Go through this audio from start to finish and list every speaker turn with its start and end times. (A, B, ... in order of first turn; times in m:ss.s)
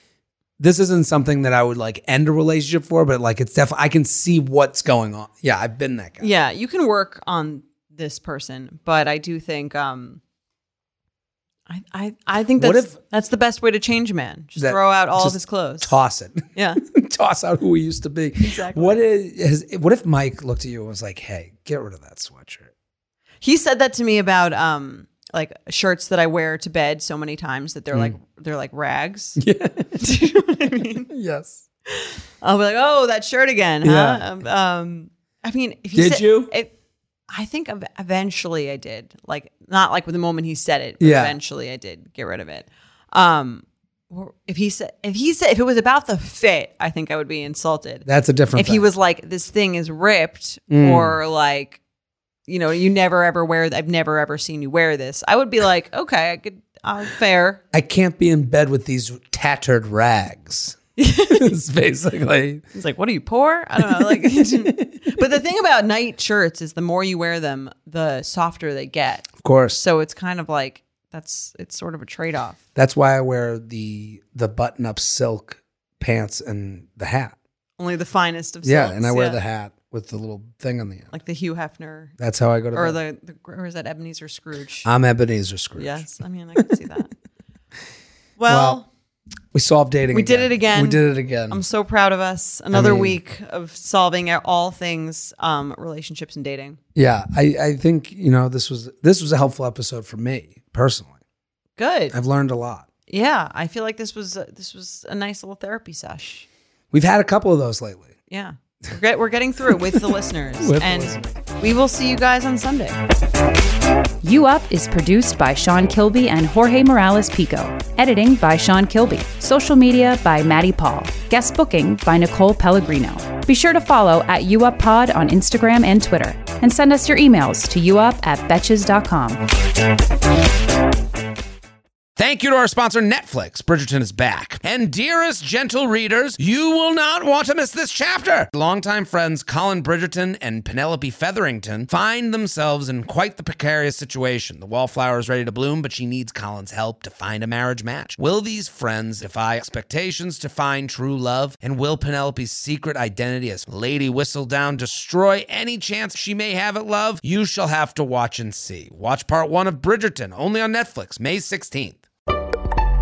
0:00.6-0:06.3 A
0:06.2-0:10.2 B
0:11.7-0:15.9 B
0:12.6-0:12.9 A
0:14.6-0:22.7 A
0:16.5-0:16.8 B
0:18.4-0:19.0 B
0:23.4-0:29.4 B
0:29.4-0:30.0 A
0:30.0-0:31.1 B
0:31.1-0:31.6 A
0:31.9-0:36.7 B
0:33.8-0:34.2 A
0:35.9-0:36.5 A
0:37.3-0:51.8 B
0:41.0-0:41.4 A
0:48.0-0:48.8 A
0:50.7-0:51.2 A
0:52.5-0:57.6 B
0:57.7-1:00.8 A
1:01.0-1:01.5 B
1:01.3-1:02.6 A
1:02.7-1:12.6 B
1:03.8-1:05.1 A
1:09.4-1:09.8 A
1:12.7-1:17.4 A
1:17.8-1:19.4 B
1:18.6-1:21.1 A
1:21.1-1:22.1 B
1:22.2-1:23.0 A
1:22.7-1:24.9 B
1:24.8-1:26.0 A
1:25.8-1:27.1 B
1:28.4-1:28.9 B
1:28.5-1:28.8 A
1:29.5-1:31.6 A
1:30.1-1:36.8 B
1:32.7-1:33.2 A
1:37.0-1:41.1 A
1:41.8-1:42.1 B
1:42.1-1:42.8 A
1:43.1-1:46.5 B
1:46.9-1:48.1 A
1:48.3-1:53.0 B
1:50.6-1:51.4 A
1:54.2-2:09.4 C
2:12.2-2:42.0 A